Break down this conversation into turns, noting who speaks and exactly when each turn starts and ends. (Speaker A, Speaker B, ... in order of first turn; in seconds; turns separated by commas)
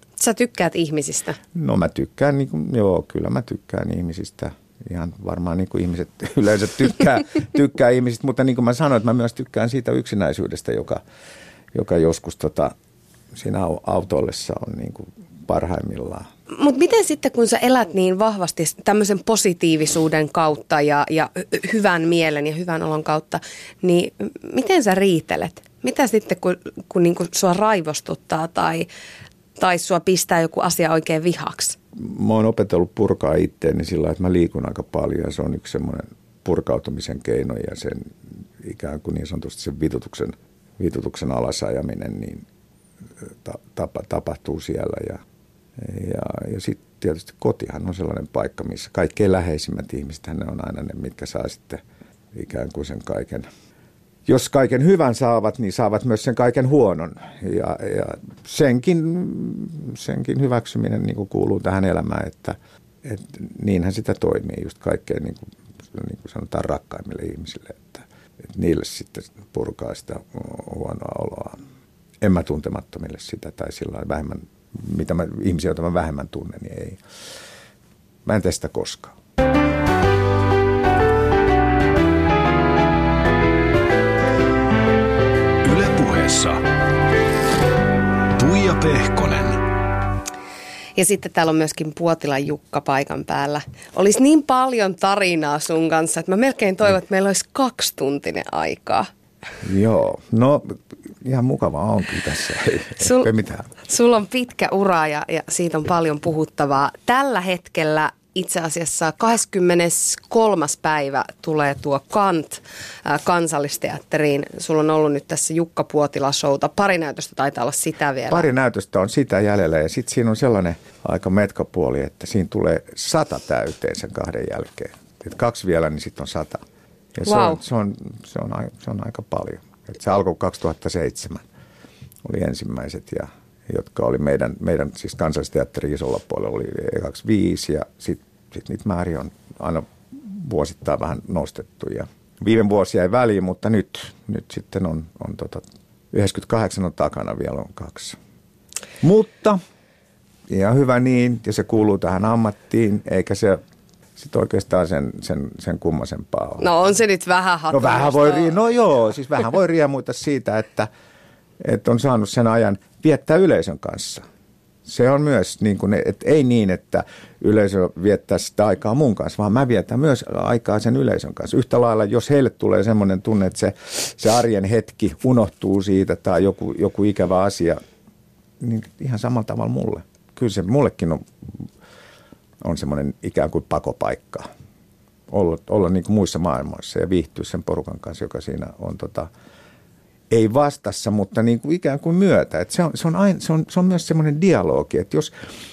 Speaker A: 0.2-1.4, Speaker B: 1.5-11.0, Speaker B: 11.7-12.7, Speaker B: 13.3-16.3, Speaker A: 16.5-28.9, Speaker A: 29.6-31.8, Speaker B: 32.0-42.4, Speaker B: 43.4-45.2, Speaker B: 45.8-51.8, Speaker B: 52.3-53.5, Speaker B: 54.2-71.6, Speaker B: 72.2-77.0, Speaker B: 78.2-79.2, Speaker C: 85.6-86.6, Speaker C: 88.3-89.6, Speaker A: 91.0-99.1, Speaker B: 99.6-103.7, Speaker A: 103.0-103.3, Speaker A: 103.8-118.5, Speaker B: 118.3-126.6, Speaker B: 127.1-131.4, Speaker A: 127.2-127.6, Speaker B: 132.2-148.2, Speaker B: 149.0-149.6, Speaker B: 150.5-153.6, Speaker B: 154.2-156.7, Speaker A: 156.6-158.6, Speaker B: 157.7-160.9, Speaker B: 161.6-164.2, Speaker B: 164.8-177.8, Speaker B: 178.6-181.6, Speaker B: 182.6-184.5, Speaker B: 185.3-189.3, Speaker B: 190.3-195.3